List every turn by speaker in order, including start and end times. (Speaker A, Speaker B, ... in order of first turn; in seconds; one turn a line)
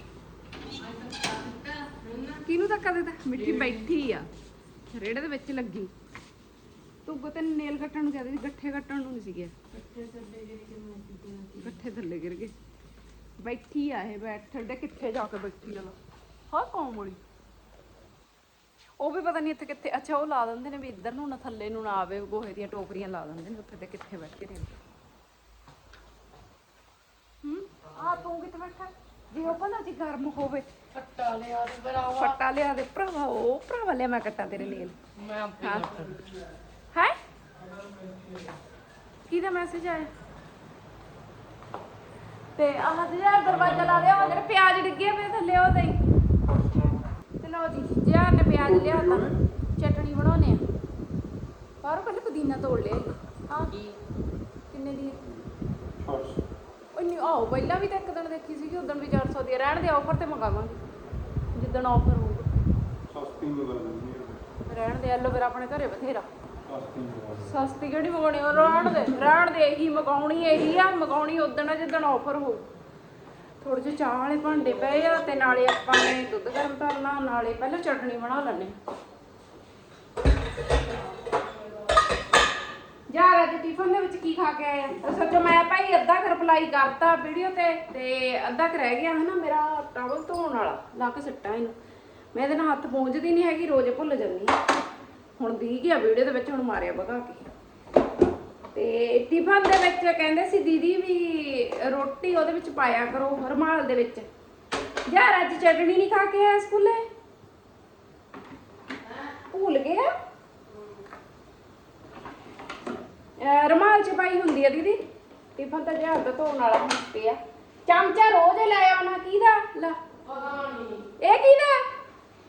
Speaker A: 0.8-2.4
Speaker B: 2.5-4.3
Speaker A: 3.3-3.9
Speaker B: 4.9-5.9
Speaker B: 7.1-9.5
Speaker A: 9.7-11.8
Speaker B: 11.6-12.5
Speaker B: 13.4-15.9
Speaker B: 16.5-17.2
Speaker B: 19.0-24.8
Speaker B: 27.4-30.7
Speaker A: 30.9-32.4
Speaker B: 32.2-35.0
Speaker A: 35.2-36.3
Speaker B: 35.6-35.9
Speaker C: 37.6-38.5
Speaker B: 39.3-40.1
Speaker B: 42.6-46.0
Speaker C: 43.4-44.4
Speaker C: 46.5-47.0
Speaker B: 47.4-50.6
Speaker C: 48.6-49.4
Speaker B: 51.8-53.7
Speaker A: 53.7-54.0
Speaker B: 54.7-55.2
Speaker C: 56.0-56.4
Speaker B: 56.9-60.8
Speaker B: 61.5-62.5
Speaker C: 63.1-64.4
Speaker B: 64.7-66.3
Speaker C: 66.7-67.6
Speaker B: 67.4-72.7
Speaker B: 73.6-78.8
Speaker B: 83.1-91.7
Speaker B: 92.3-94.5
Speaker B: 95.4-97.4
Speaker B: 98.7-104.3
Speaker B: 105.1-107.0
Speaker A: 109.0-109.3
Speaker B: 109.5-110.1
Speaker A: 110.7-111.0
Speaker B: 113.4-115.0
Speaker B: 115.5-120.0
Speaker A: 120.2-121.1
Speaker B: 121.2-121.8